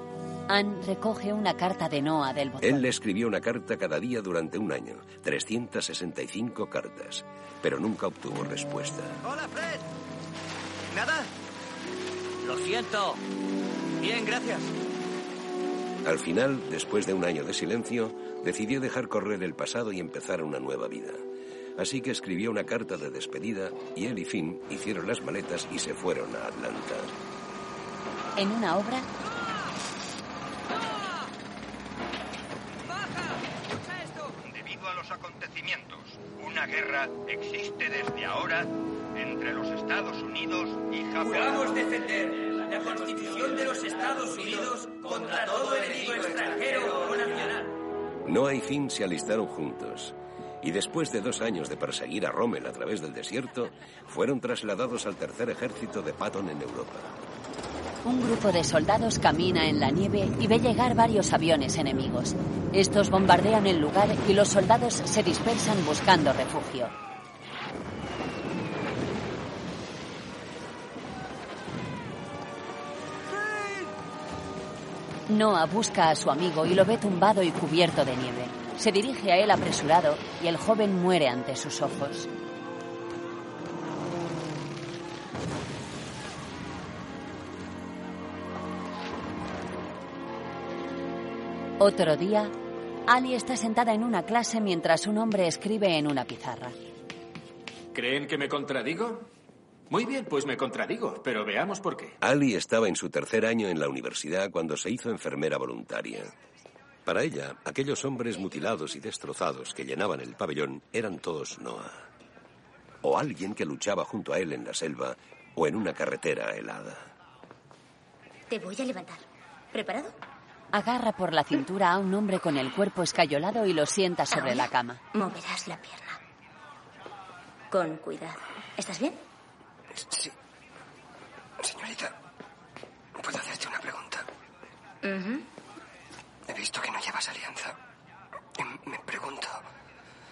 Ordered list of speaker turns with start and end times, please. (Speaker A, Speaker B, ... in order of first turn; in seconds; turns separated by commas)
Speaker A: 0.5-2.9, Speaker B: 2.6-9.2, Speaker B: 16.0-21.2, Speaker B: 21.8-27.1, Speaker A: 28.4-29.1, Speaker C: 34.2-41.7, Speaker D: 41.3-47.5, Speaker B: 48.2-57.1, Speaker A: 58.0-66.9, Speaker A: 75.3-82.3, Speaker A: 91.8-92.5, Speaker A: 93.1-96.7, Speaker E: 97.9-99.3, Speaker E: 99.9-102.1, Speaker B: 102.2-106.3, Speaker B: 107.0-112.0, Speaker B: 113.0-117.1, Speaker F: 118.5-120.2, Speaker A: 120.7-125.0, Speaker F: 124.3-126.2, Speaker F: 127.7-129.2, Speaker G: 129.9-130.3, Speaker G: 131.6-132.1, Speaker G: 133.2-134.2, Speaker F: 135.0-135.5, Speaker G: 136.5-137.8, Speaker G: 138.6-139.6